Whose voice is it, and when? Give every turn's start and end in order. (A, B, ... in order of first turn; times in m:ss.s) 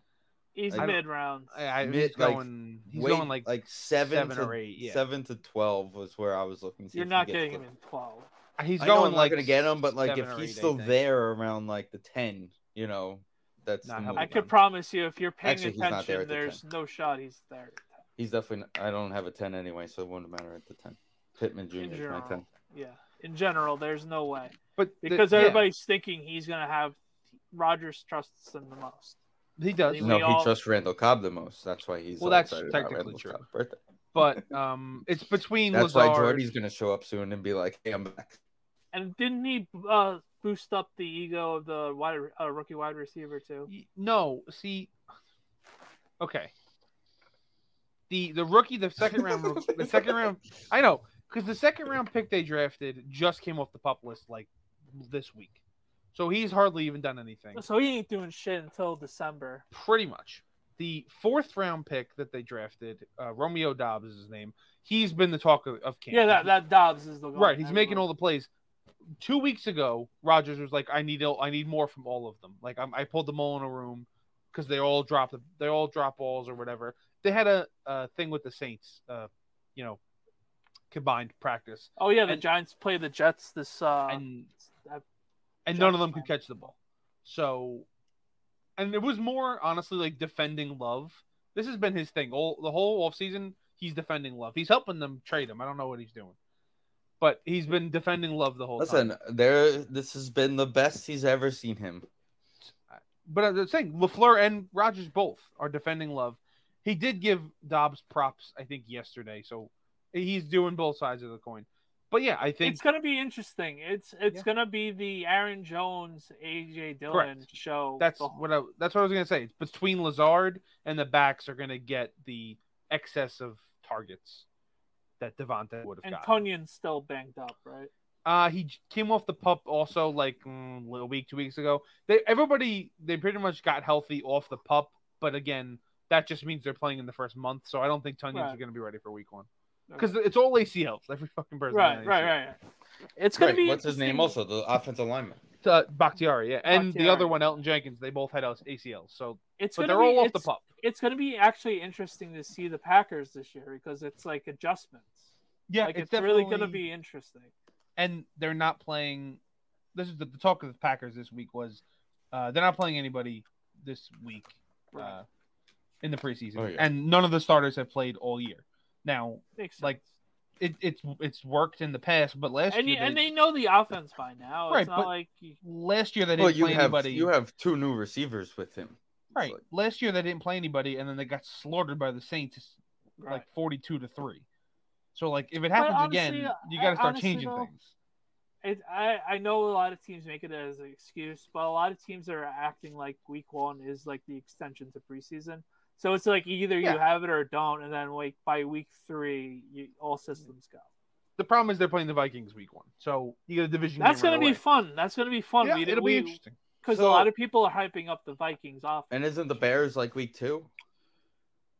0:00.5-0:01.6 A
0:00.7-0:01.0 B
0:00.7-0:05.0 C
0:01.8-0:07.6 B
0:06.9-0:08.3 A
0:08.6-0:11.0 C
0:08.8-0:14.3 B
0:13.8-0:14.5 C
0:14.2-0:17.9 A
0:15.4-0:16.6 B
0:18.2-0:22.4 B
0:21.8-0:27.0 A
0:24.8-0:25.7 C
0:27.5-0:29.2 A
0:29.6-0:30.1 C
0:29.8-0:30.5 A
0:30.0-0:34.4 B
0:32.2-0:33.4 C
0:34.1-0:36.5 C
0:35.7-0:38.4 B
0:38.9-0:43.7 A
0:43.7-0:44.9 C
0:46.2-0:46.5 C
0:48.1-0:55.6 C
0:49.0-0:50.2 B
0:56.1-0:57.6 C
0:57.5-0:59.6 A
0:59.7-1:06.5 C
1:06.1-1:08.1 A
1:07.3-1:08.5 C
1:09.2-1:20.0 C
1:20.9-1:22.4 C
1:22.0-1:24.2 A
1:24.1-1:24.5 C
1:25.6-1:26.7 C
1:25.7-1:26.5 A
1:27.2-1:27.9 C
1:28.8-1:36.4 C
1:37.2-1:39.1 C
1:38.8-1:42.1 B
1:42.9-1:52.8 C
1:52.6-1:58.3 A
1:57.1-1:57.4 C
1:58.0-2:04.4 C
2:05.2-2:06.3 C
2:06.0-2:07.9 A
2:08.2-2:19.5 C
2:18.3-2:18.6 A
2:19.9-2:20.1 A
2:20.0-2:22.4 C
2:21.7-2:22.6 A
2:23.2-2:24.4 A
2:23.4-2:25.4 B
2:25.6-2:30.6 C
2:26.6-2:27.4 A
2:29.6-2:35.3 A
2:35.7-2:36.8 C
2:35.8-2:37.5 A
2:38.0-2:39.4 C
2:39.9-2:45.2 C
2:46.0-2:50.0 C
2:46.6-2:46.9 B
2:49.6-2:50.0 A
2:50.6-2:53.2 C
2:52.7-2:55.6 A
2:54.7-2:55.1 C
2:55.6-2:57.3 C
2:56.4-2:59.6 B
2:59.3-3:04.4 C
3:03.2-3:03.4 A
3:05.1-3:07.9 C
3:05.8-3:07.7 A
3:08.6-3:20.9 A
3:21.4-3:24.6 C
3:24.0-3:29.1 A
3:25.6-3:26.6 C
3:26.9-3:27.3 B
3:29.1-3:30.7 B